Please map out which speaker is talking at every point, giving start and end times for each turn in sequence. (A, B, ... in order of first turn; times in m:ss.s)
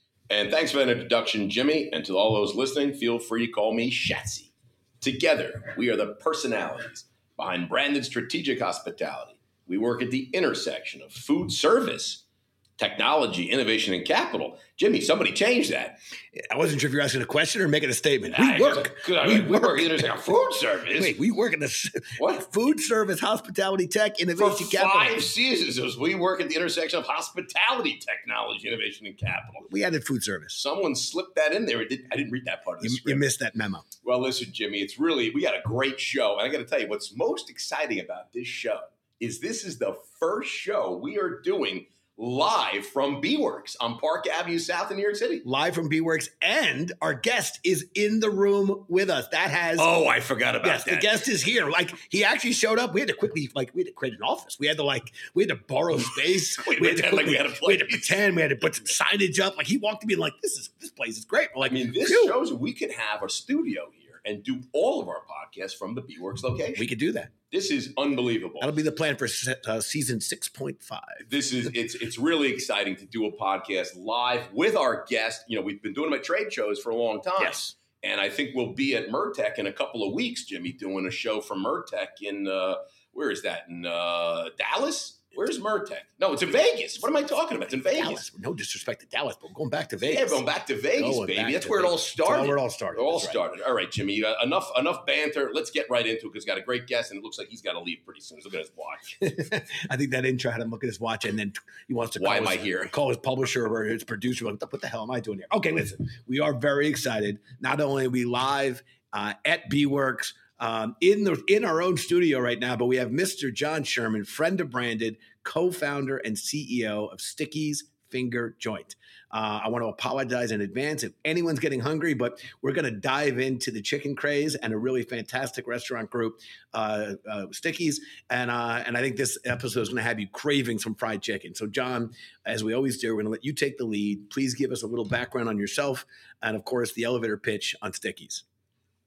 0:00.3-0:12.2 A
0:12.8-0:16.0 A
0:16.3-0:20.1 B
0:18.3-0:21.2 A
0:20.9-0:25.2 B
0:22.2-0:22.5 A
0:24.4-0:29.7 A
0:29.6-0:30.6 B
0:30.5-0:33.2 A
0:32.8-0:33.9 B
0:34.0-0:45.4 A
0:45.4-0:49.9 B
0:49.8-0:51.2 A
0:50.6-1:02.4 B
0:56.6-0:58.2 A
1:01.6-1:06.9 A
1:06.8-1:07.3 B
1:07.5-1:08.8 A
1:08.6-1:11.3 B
1:11.2-1:28.3 A
1:17.4-1:17.7 B
1:27.9-1:30.4 B
1:30.0-1:39.3 A
1:31.0-1:33.4 B
1:39.2-2:18.4 B
1:42.2-1:42.9 A